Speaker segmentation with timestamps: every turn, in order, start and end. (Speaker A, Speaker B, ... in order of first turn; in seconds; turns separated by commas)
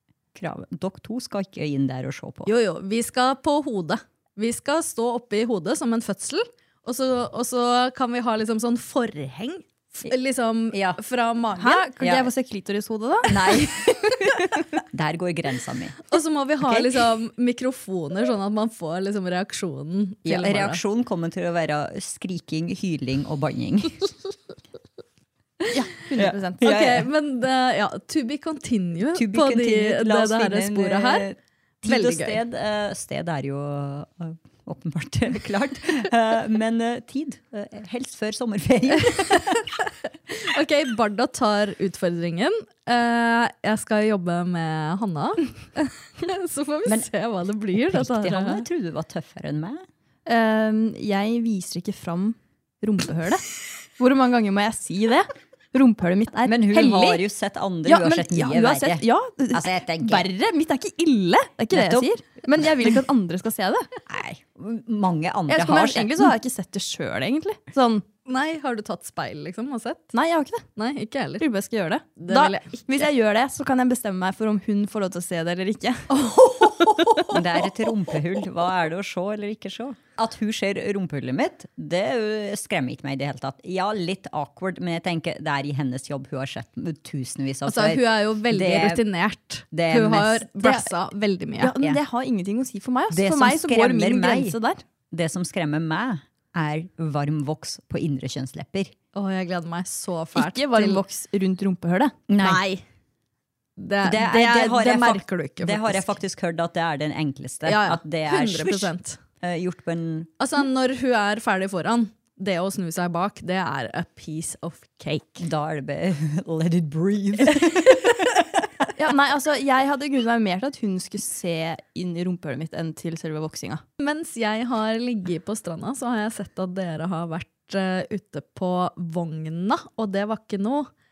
Speaker A: 0.3-2.5, Speaker B: 2.5-11.8, Speaker A: 10.7-11.0, Speaker C: 11.6-13.8, Speaker A: 12.0-12.3, Speaker A: 13.3-16.1, Speaker B: 16.1-20.8, Speaker A: 16.6-17.0, Speaker A: 20.2-24.1, Speaker C: 25.7-26.7, Speaker A: 26.1-27.1, Speaker B: 26.6-31.3, Speaker A: 29.1-39.7, Speaker B: 31.8-32.4, Speaker B: 40.3-45.5, Speaker B: 46.2-48.6, Speaker A: 47.7-49.9, Speaker C: 50.2-53.4, Speaker C: 54.0-57.2, Speaker A: 56.4-60.3, Speaker C: 57.8-63.9, Speaker A: 61.7-62.1, Speaker A: 64.1-66.3, Speaker C: 65.5-68.0, Speaker B: 68.2-70.1, Speaker C: 70.1-70.7, Speaker B: 70.8-71.4, Speaker C: 71.4-77.3, Speaker B: 72.2-72.9, Speaker B: 76.1-77.3, Speaker A: 77.3-89.0, Speaker B: 87.7-91.7, Speaker A: 89.7-90.5, Speaker C: 91.6-94.8, Speaker A: 93.1-94.5, Speaker A: 95.1-98.9, Speaker B: 99.1-101.0, Speaker C: 100.3-102.2, Speaker A: 102.3-102.6, Speaker B: 102.4-102.8, Speaker B: 103.8-106.2, Speaker A: 104.0-110.3, Speaker B: 107.6-109.2, Speaker B: 110.4-115.4, Speaker A: 115.4-118.9, Speaker C: 118.9-123.8, Speaker B: 124.0-130.9